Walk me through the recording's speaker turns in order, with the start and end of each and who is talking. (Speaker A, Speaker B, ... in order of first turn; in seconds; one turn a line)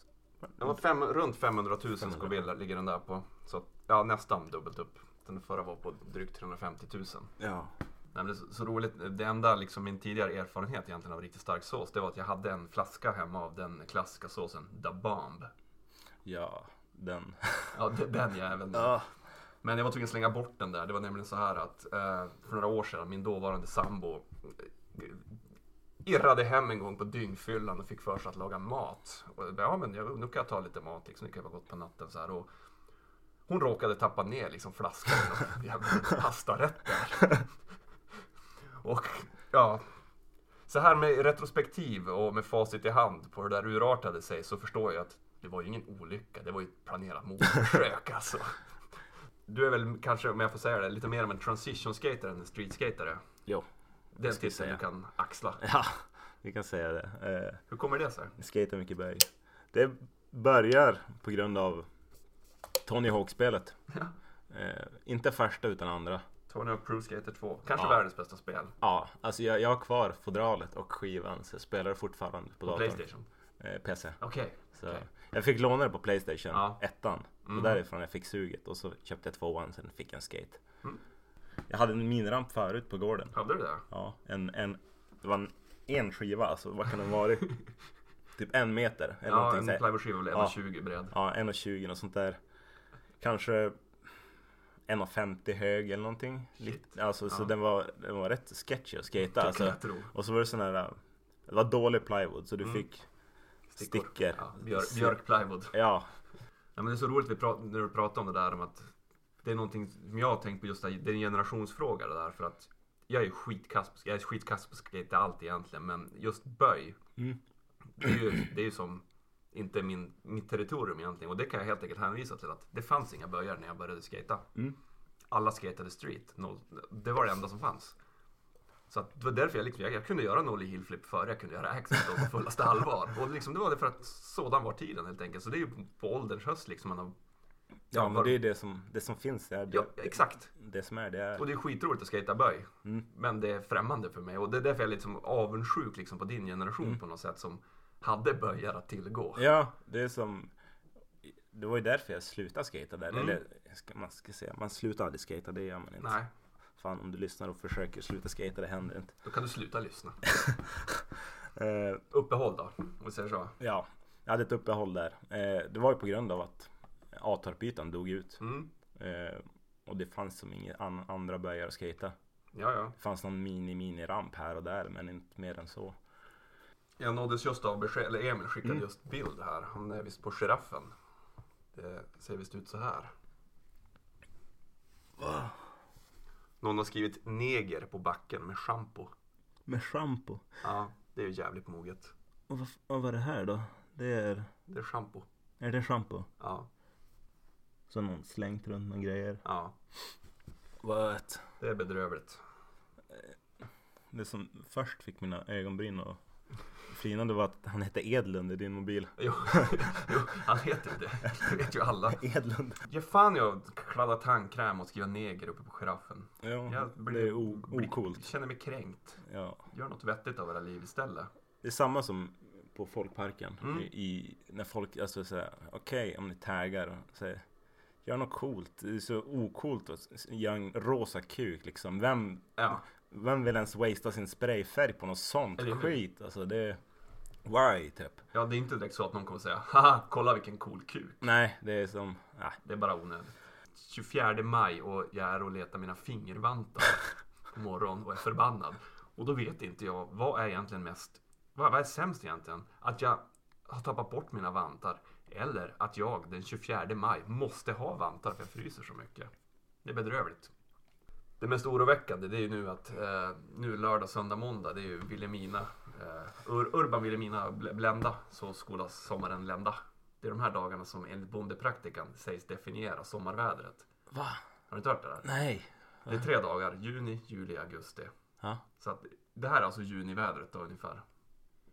Speaker A: 0.4-0.7
Speaker B: 0.6-7.3
Speaker A: 2.0-2.4
Speaker A: 7.4-7.7
Speaker B: 8.1-15.5
Speaker A: 16.2-17.8
Speaker B: 17.7-18.9
Speaker A: 18.7-19.1
Speaker B: 19.6-25.2
Speaker B: 26.0-32.5
Speaker B: 33.5-37.5
Speaker B: 38.8-39.8
Speaker B: 40.7-48.6
Speaker B: 49.5-53.2
Speaker B: 54.1-55.6
Speaker A: 54.2-54.8
Speaker A: 55.6-57.6
Speaker B: 57.7-58.3
Speaker A: 58.4-61.9
Speaker A: 62.9-63.8
Speaker A: 64.5-66.2
Speaker B: 66.5-68.7
Speaker A: 68.8-73.0
Speaker B: 72.6-73.2
Speaker A: 73.6-74.2
Speaker B: 74.2-75.0
Speaker A: 74.8-80.6
Speaker B: 76.5-76.8
Speaker B: 77.5-77.8
Speaker A: 81.7-83.3
Speaker B: 83.3-83.8
Speaker A: 83.9-87.5
Speaker A: 88.3-90.5
Speaker B: 89.2-91.1
Speaker A: 91.1-92.4
Speaker A: 93.2-93.8
Speaker A: 94.9-103.0
Speaker B: 96.6-97.5
Speaker B: 99.3-100.1
Speaker B: 103.7-105.7
Speaker A: 103.8-105.2
Speaker A: 105.7-106.1
Speaker B: 106.8-108.9
Speaker B: 109.4-117.0
Speaker B: 118.0-124.5
Speaker B: 125.3-127.9
Speaker B: 128.9-137.1
Speaker B: 137.9-138.3
Speaker A: 137.9-141.4
Speaker B: 139.7-140.5
Speaker B: 141.4-149.4
Speaker A: 149.3-150.5
Speaker A: 151.2-156.2
Speaker B: 153.1-153.4
Speaker B: 156.0-156.3
Speaker A: 156.8-159.1
Speaker B: 159.2-160.2
Speaker A: 160.3-161.0
Speaker A: 161.6-162.0
Speaker B: 162.1-163.5
Speaker A: 163.6-168.4
Speaker B: 168.4-168.7
Speaker A: 168.9-172.1
Speaker B: 172.5-172.9
Speaker A: 173.0-176.0
Speaker B: 177.0-180.9
Speaker B: 181.7-183.1
Speaker A: 185.2-185.6
Speaker B: 186.6-189.1
Speaker A: 189.7-190.4
Speaker B: 190.6-192.1
Speaker A: 192.5-194.5
Speaker B: 194.7-195.2
Speaker A: 195.6-196.3
Speaker B: 196.4-196.7
Speaker A: 197.9-199.4
Speaker B: 199.4-199.7
Speaker A: 200.8-201.4
Speaker B: 201.6-202.4
Speaker A: 204.1-206.2
Speaker A: 206.9-209.8
Speaker B: 209.2-212.2
Speaker A: 212.1-212.8
Speaker B: 212.8-221.3
Speaker A: 216.4-218.2
Speaker A: 219.2-219.6
Speaker A: 221.6-227.4
Speaker B: 223.6-223.9
Speaker A: 228.0-236.8
Speaker B: 232.6-232.8
Speaker B: 235.6-235.9
Speaker A: 237.4-238.2
Speaker B: 238.3-241.2
Speaker A: 241.2-242.6
Speaker B: 242.6-259.3
Speaker B: 259.8-260.5
Speaker B: 261.4-273.9
Speaker A: 274.1-274.4
Speaker B: 274.7-275.3
Speaker A: 275.2-276.2
Speaker B: 276.1-278.1
Speaker B: 278.8-281.0